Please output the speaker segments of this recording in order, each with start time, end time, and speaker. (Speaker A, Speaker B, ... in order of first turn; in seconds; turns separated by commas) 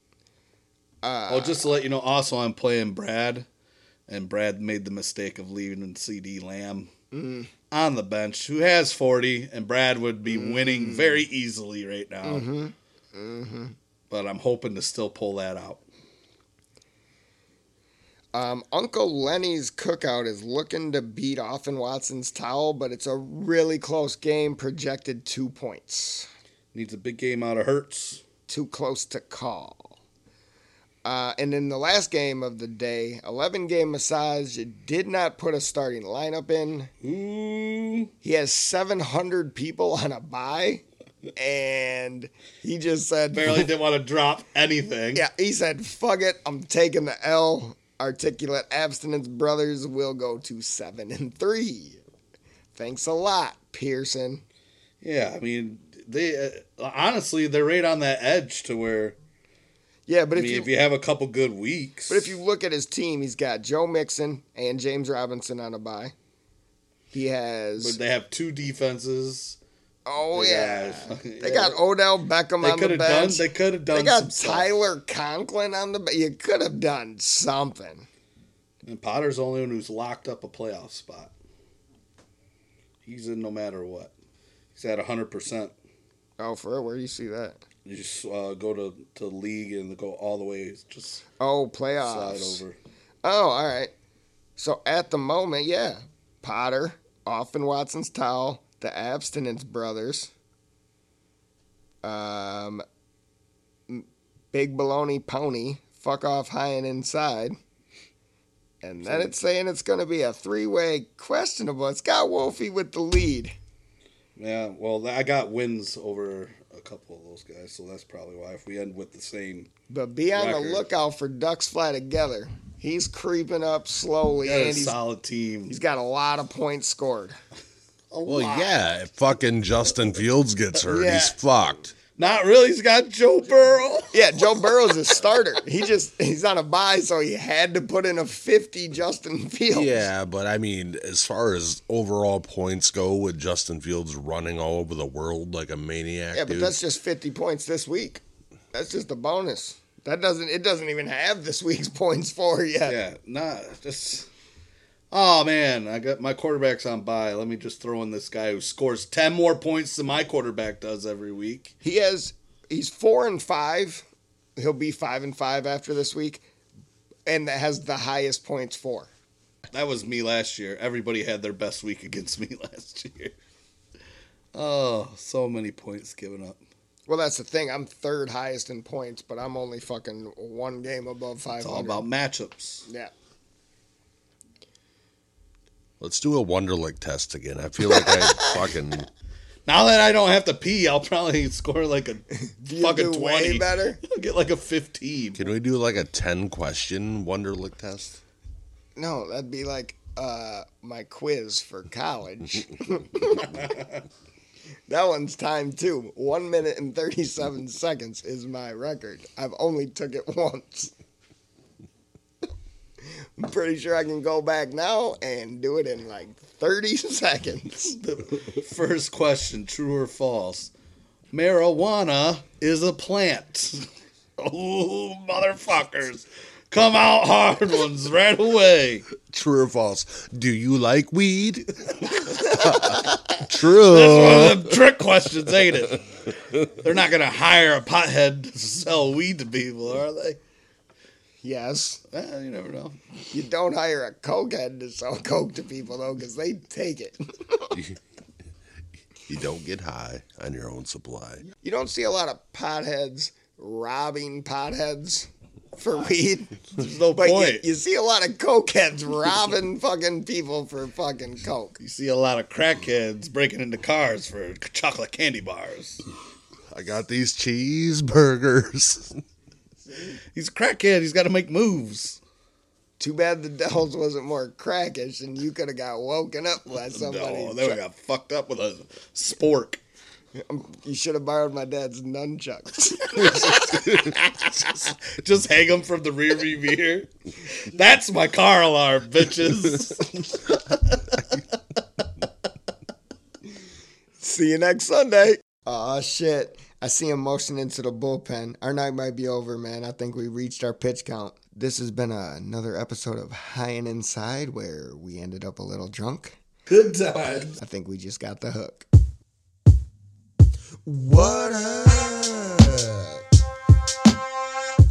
Speaker A: 1.0-1.6, Speaker B: 1.3-3.5, Speaker B: 4.1-6.9, Speaker A: 7.1-7.5, Speaker B: 7.7-12.5, Speaker A: 10.3-11.2, Speaker A: 12.2-13.7, Speaker B: 14.1-15.8, Speaker A: 18.3-26.3, Speaker B: 26.7-28.2, Speaker A: 28.5-30.0, Speaker A: 31.0-36.9, Speaker B: 37.0-38.1, Speaker A: 38.2-40.8, Speaker A: 41.4-43.7, Speaker B: 43.3-45.2, Speaker A: 45.1-52.0, Speaker A: 52.7-54.4, Speaker B: 55.0-59.1, Speaker A: 60.1-60.7, Speaker B: 60.3-62.4, Speaker A: 62.1-66.1, Speaker A: 67.1-68.0, Speaker B: 67.8-69.6, Speaker A: 70.0-78.1, Speaker B: 70.3-71.8, Speaker B: 72.6-74.7, Speaker B: 78.8-81.3, Speaker B: 83.0-84.1, Speaker B: 84.8-85.7, Speaker A: 86.4-87.6, Speaker B: 87.8-91.2, Speaker A: 91.4-92.6, Speaker B: 92.0-92.8, Speaker A: 93.2-93.9, Speaker A: 94.6-100.3, Speaker A: 102.0-102.8, Speaker A: 103.9-107.6, Speaker A: 108.8-113.5, Speaker B: 109.0-109.3, Speaker B: 114.4-119.7, Speaker A: 119.9-125.0, Speaker B: 120.3-120.8, Speaker B: 124.4-125.7, Speaker A: 125.7-127.4, Speaker B: 128.1-128.8, Speaker C: 128.2-131.9, Speaker A: 130.8-131.4, Speaker B: 132.2-134.7, Speaker A: 134.1-140.1, Speaker C: 139.7-146.8, Speaker A: 146.3-148.2, Speaker A: 148.7-153.0, Speaker B: 152.9-154.3, Speaker B: 155.1-161.7, Speaker A: 161.8-164.0, Speaker A: 164.6-166.4, Speaker A: 167.3-169.1, Speaker B: 169.7-173.3, Speaker B: 174.5-176.6, Speaker A: 177.1-182.1, Speaker B: 181.6-182.8, Speaker A: 182.9-183.1, Speaker C: 186.0-189.1, Speaker A: 187.9-188.7, Speaker B: 189.7-192.2, Speaker A: 192.3-194.0, Speaker B: 192.8-195.4, Speaker C: 195.4-198.2, Speaker A: 198.9-203.7, Speaker B: 203.5-203.8, Speaker A: 204.9-210.9, Speaker A: 213.4-217.9, Speaker B: 217.9-220.7, Speaker B: 221.3-223.9, Speaker B: 224.4-229.1, Speaker C: 229.1-234.8, Speaker B: 232.6-233.1, Speaker B: 233.7-236.0, Speaker B: 236.6-240.4, Speaker A: 241.4-242.0, Speaker B: 242.1-243.0, Speaker A: 243.3-247.7, Speaker C: 249.3-251.4, Speaker A: 251.6-256.6, Speaker B: 256.7-257.6, Speaker A: 257.1-261.8, Speaker B: 261.8-266.0, Speaker C: 266.7-269.2, Speaker B: 270.3-272.2, Speaker A: 273.0-277.8, Speaker B: 276.7-279.8, Speaker A: 280.3-284.6, Speaker B: 283.4-291.4, Speaker A: 294.2-306.4, Speaker B: 306.7-307.6, Speaker A: 307.6-308.9, Speaker A: 310.8-313.2